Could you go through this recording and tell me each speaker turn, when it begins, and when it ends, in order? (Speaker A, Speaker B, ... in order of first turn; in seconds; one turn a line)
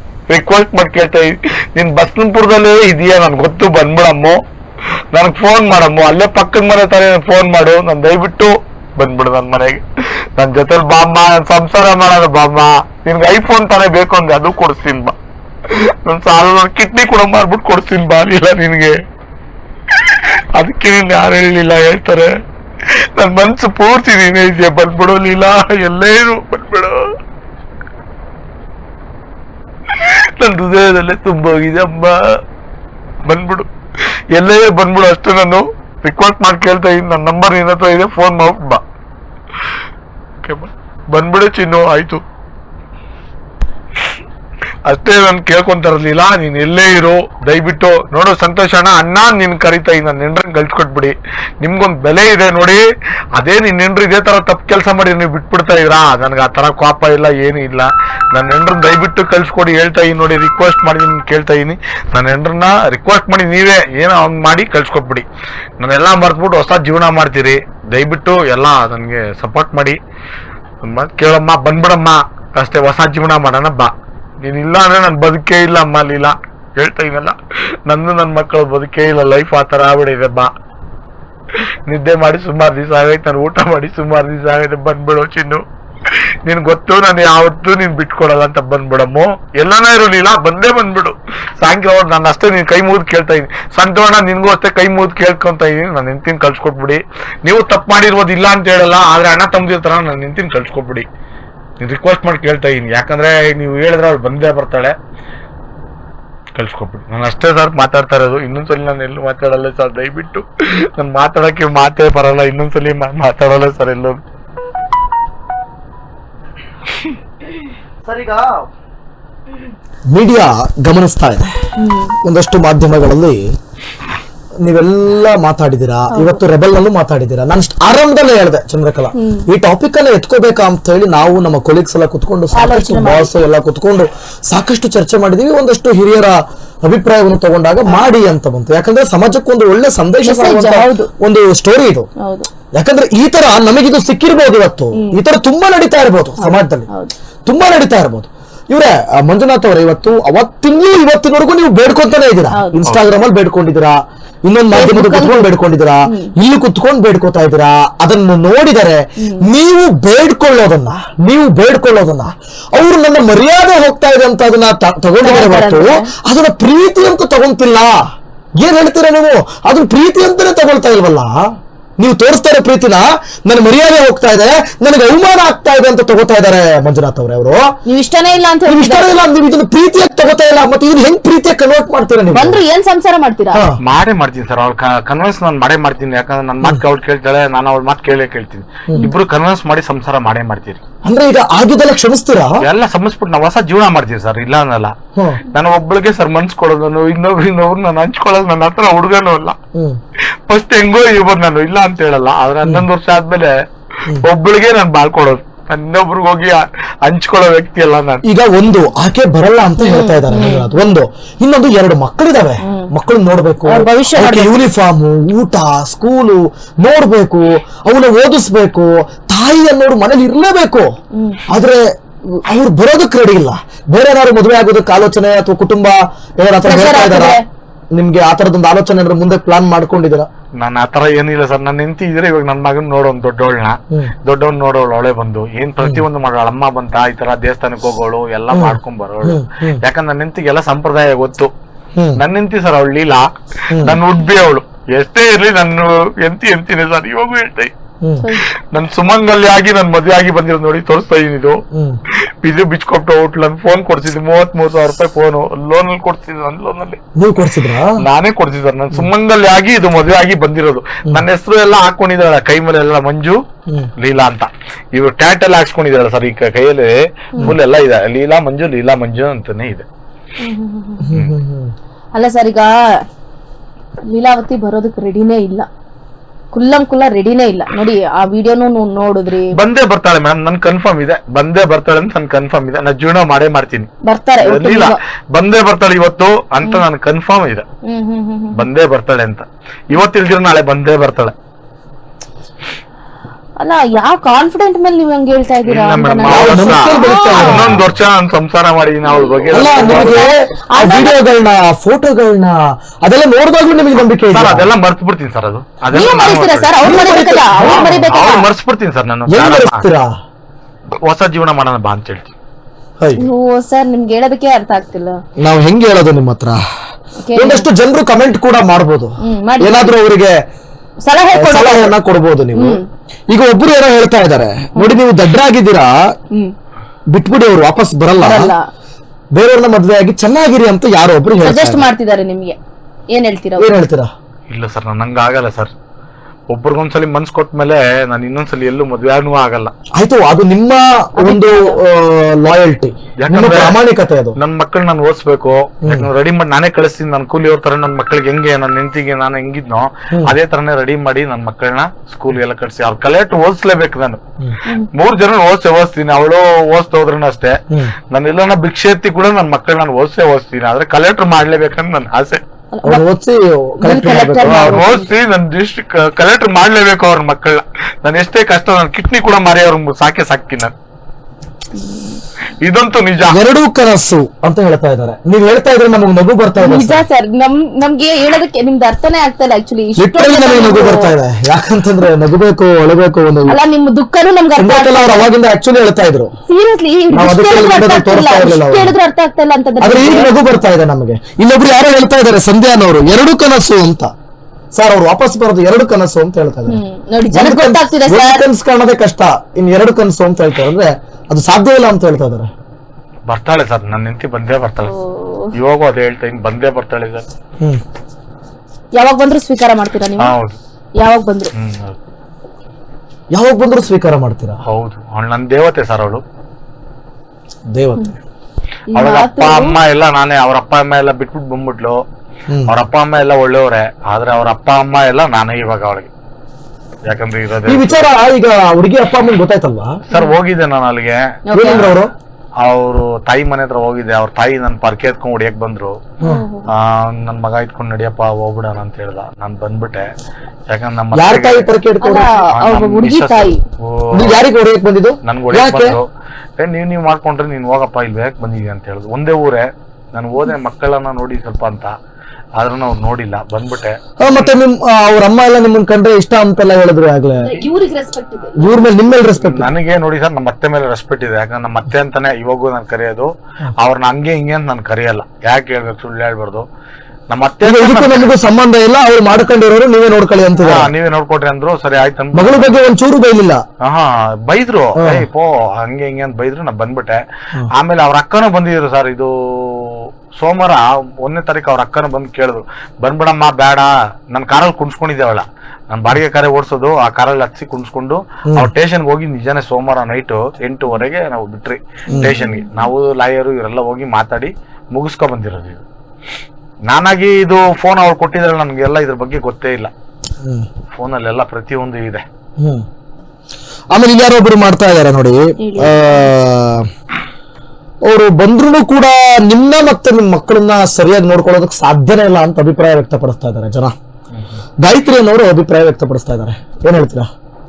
Speaker A: 0.3-4.4
Speaker A: 5.1-9.8
Speaker A: 10.4-15.2
Speaker A: 15.7-18.9
Speaker A: 20.1-22.3
Speaker A: 23.1-27.1
Speaker A: 30.0-32.2
Speaker A: 33.2-33.7
Speaker A: 34.3-38.8
Speaker A: 40.4-42.2
Speaker A: 44.9-52.8
Speaker A: 53.3-65.2
Speaker A: 65.8-70.0
Speaker A: 70.8-80.5
Speaker A: 81.9-85.6
Speaker A: 86.4-101.1
Speaker A: 101.8-104.9
Speaker A: 106.5-114.2
Speaker B: 118.0-118.7
Speaker B: 120.1-121.5
Speaker C: 121.8-122.2
Speaker B: 122.2-123.4
Speaker B: 124.6-142.1
Speaker C: 126.1-126.4
Speaker C: 129.2-129.4
Speaker C: 132.5-133.3
Speaker C: 140.2-141.1
Speaker C: 142.2-142.5
Speaker B: 142.7-146.9
Speaker C: 144.9-145.2
Speaker C: 146.4-147.1
Speaker B: 147.4-168.0
Speaker C: 152.5-152.9
Speaker C: 154.7-155.5
Speaker C: 156.1-156.3
Speaker C: 159.2-159.5
Speaker C: 165.2-166.1
Speaker B: 168.6-171.5
Speaker B: 172.0-177.8
Speaker C: 177.9-179.1
Speaker B: 178.7-182.6
Speaker C: 182.3-183.6
Speaker B: 183.5-183.8
Speaker A: 183.8-190.8
Speaker B: 191.0-192.6
Speaker A: 192.6-194.9
Speaker A: 195.5-199.6
Speaker A: 200.5-203.5
Speaker A: 204.1-208.2
Speaker B: 208.2-220.9
Speaker C: 209.8-210.7
Speaker C: 212.6-212.9
Speaker C: 213.7-214.6
Speaker C: 221.2-221.4
Speaker B: 221.5-227.4
Speaker C: 226.6-227.4
Speaker B: 227.9-230.3
Speaker A: 230.6-241.5
Speaker B: 238.5-239.8
Speaker A: 242.2-247.7
Speaker B: 243.7-244.0
Speaker A: 248.7-251.6
Speaker B: 251.7-252.0
Speaker A: 252.4-257.0
Speaker B: 257.1-257.9
Speaker A: 258.0-263.4
Speaker A: 264.0-269.9
Speaker C: 270.4-271.1
Speaker B: 271.0-271.7
Speaker C: 272.1-272.7
Speaker C: 274.1-275.7
Speaker C: 276.5-279.5
Speaker A: 279.5-283.9
Speaker C: 284.1-285.0
Speaker A: 284.4-287.6
Speaker C: 287.9-288.6
Speaker A: 288.5-291.3
Speaker C: 293.6-297.8
Speaker A: 295.6-300.2
Speaker B: 296.2-297.9
Speaker C: 299.1-301.2
Speaker B: 299.5-304.7
Speaker A: 304.3-306.8
Speaker C: 305.9-308.5
Speaker B: 306.8-308.2
Speaker A: 307.6-309.9
Speaker B: 309.3-310.1
Speaker A: 311.0-312.3
Speaker B: 313.0-313.3
Speaker C: 313.1-315.2
Speaker B: 315.4-316.6
Speaker C: 317.2-317.6
Speaker B: 317.4-320.4
Speaker C: 319.2-319.9
Speaker C: 321.0-321.9
Speaker B: 321.3-325.9
Speaker C: 322.5-322.9
Speaker B: 327.1-328.5
Speaker C: 328.2-328.7
Speaker B: 329.3-331.9
Speaker C: 331.4-332.6
Speaker C: 333.1-333.7
Speaker B: 333.6-334.1
Speaker A: 334.5-335.7
Speaker A: 336.5-339.7
Speaker B: 340.0-344.4
Speaker C: 341.2-341.8
Speaker A: 343.2-343.8
Speaker A: 344.4-354.2
Speaker B: 345.8-346.1
Speaker A: 354.9-357.6
Speaker A: 358.1-362.4
Speaker C: 362.7-363.0
Speaker B: 362.8-364.8
Speaker C: 363.8-365.1
Speaker A: 364.4-370.7
Speaker C: 371.7-372.2
Speaker A: 372.6-373.4
Speaker B: 373.3-377.0
Speaker C: 376.6-381.1
Speaker B: 380.0-383.6
Speaker C: 383.5-385.3
Speaker B: 384.6-386.3
Speaker C: 386.5-390.3
Speaker B: 387.1-388.9
Speaker B: 389.8-394.1
Speaker B: 394.7-396.8
Speaker C: 396.7-398.4
Speaker B: 397.3-402.5
Speaker A: 403.3-404.9
Speaker C: 404.8-405.5
Speaker A: 405.5-407.2
Speaker C: 408.9-410.3
Speaker A: 410.2-410.6
Speaker C: 411.0-411.5
Speaker A: 411.5-412.0
Speaker B: 413.3-414.6
Speaker A: 414.7-416.2
Speaker B: 417.7-418.1
Speaker C: 418.9-419.8
Speaker A: 418.9-422.0
Speaker A: 422.7-426.1
Speaker A: 427.1-428.1
Speaker B: 427.7-429.9
Speaker C: 430.1-430.4
Speaker A: 430.1-432.0
Speaker C: 431.5-431.9
Speaker B: 431.5-432.1
Speaker A: 432.6-436.1
Speaker C: 436.2-436.7
Speaker A: 436.7-440.1
Speaker A: 440.7-441.7
Speaker B: 441.1-442.4
Speaker C: 442.0-443.6
Speaker A: 442.5-444.4
Speaker B: 444.1-446.0
Speaker A: 445.2-446.1
Speaker A: 446.6-449.6
Speaker A: 450.1-451.9
Speaker A: 452.6-454.5
Speaker B: 454.2-457.5
Speaker C: 457.4-458.8
Speaker B: 458.6-459.7
Speaker A: 459.3-466.6
Speaker A: 467.3-468.4
Speaker B: 467.6-470.9
Speaker A: 470.6-472.8
Speaker B: 472.3-473.6
Speaker A: 473.8-477.2
Speaker B: 474.9-475.2
Speaker A: 477.7-495.8
Speaker C: 492.1-492.9
Speaker A: 496.9-499.9
Speaker A: 500.9-502.2
Speaker B: 502.6-502.8
Speaker B: 503.9-506.9
Speaker C: 505.6-506.3
Speaker B: 508.1-513.9
Speaker A: 514.3-514.6
Speaker B: 514.8-517.3